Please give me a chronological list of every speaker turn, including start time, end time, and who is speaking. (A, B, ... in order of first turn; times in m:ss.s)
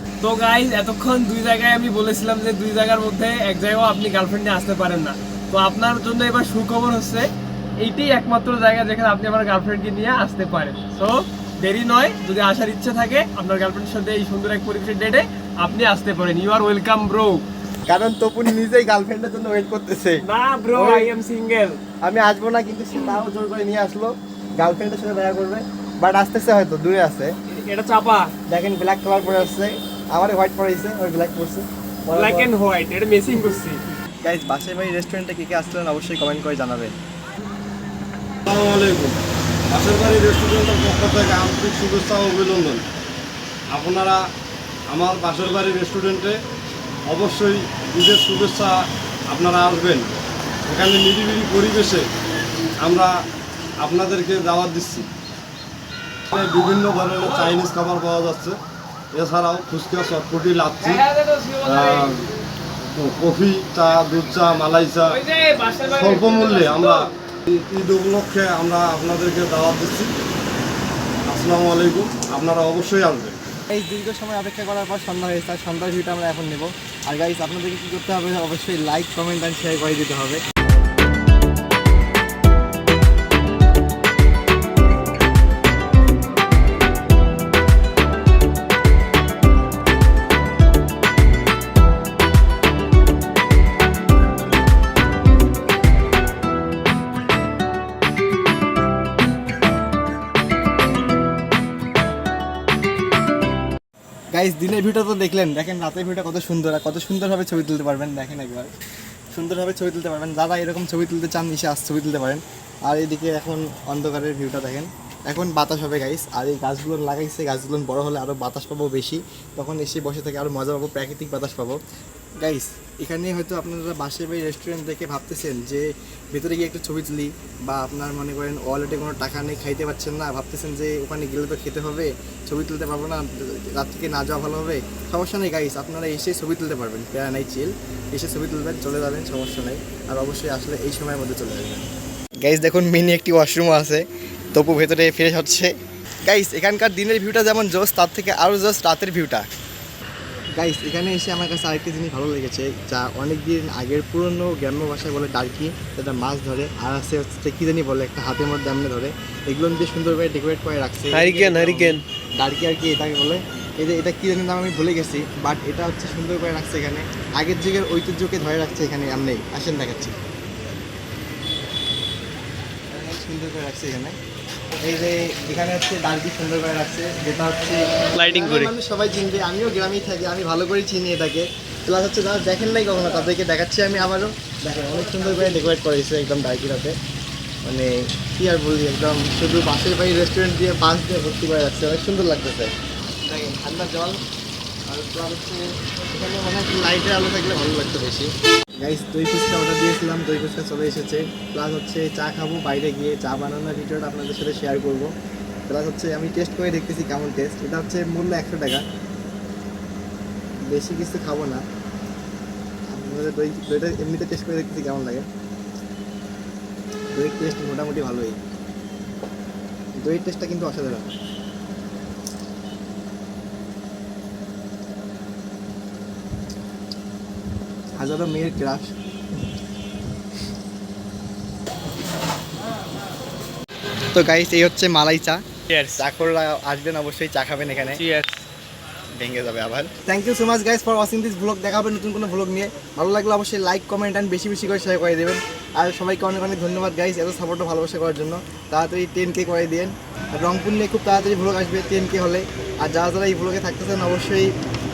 0:00.2-0:07.3 A
0:07.8-0:17.4 A
0:17.9-0:20.2 B
0:20.3-0:21.8 A
0:20.8-0:21.1 B
0:22.0-0:27.3 B
0:27.6-0:28.3 A
0:28.5-0:32.5 B
0:32.2-0:33.8 A
0:34.2-0:36.9 B
0:38.5-0:39.2 C
0:39.7-0:42.8 C
0:43.7-0:44.2 C
0:44.9-0:46.4 C
0:47.1-0:48.8 C
0:49.3-0:50.1 C
0:50.7-0:52.1 C
0:52.8-0:53.1 C
0:53.8-0:55.1 C
0:56.3-0:58.6 C
0:59.1-1:01.0 C
1:00.8-1:02.1 A
1:01.6-1:02.3 C
1:02.9-1:05.2 C
1:05.1-1:07.1 A
1:05.8-1:10.1 C
1:11.3-1:13.4 C
1:13.7-1:20.4 B
1:44.3-1:48.7 B
1:49.4-2:01.8 B
2:02.4-2:21.9 B
2:22.4-2:24.0 B
2:24.5-2:25.7 B
2:26.3-2:29.4 B
2:30.6-2:50.2 B
2:41.1-2:42.0 A
2:52.9-2:54.2 B
2:54.8-3:07.0 B
2:58.2-2:58.7 A
3:07.7-3:12.7 B
3:13.3-3:14.2 B
3:14.9-3:18.3 B
3:18.8-3:25.1 B
3:25.7-3:28.8 B
3:30.7-3:31.6 B
3:32.9-3:35.3 B
3:37.1-3:38.4 B
3:40.0-3:41.1 B
3:48.0-3:48.9 B
3:54.1-3:55.4 B
3:55.7-3:56.0 A
3:56.0-3:58.0 B
3:58.0-3:58.4 A
3:59.2-4:14.5 B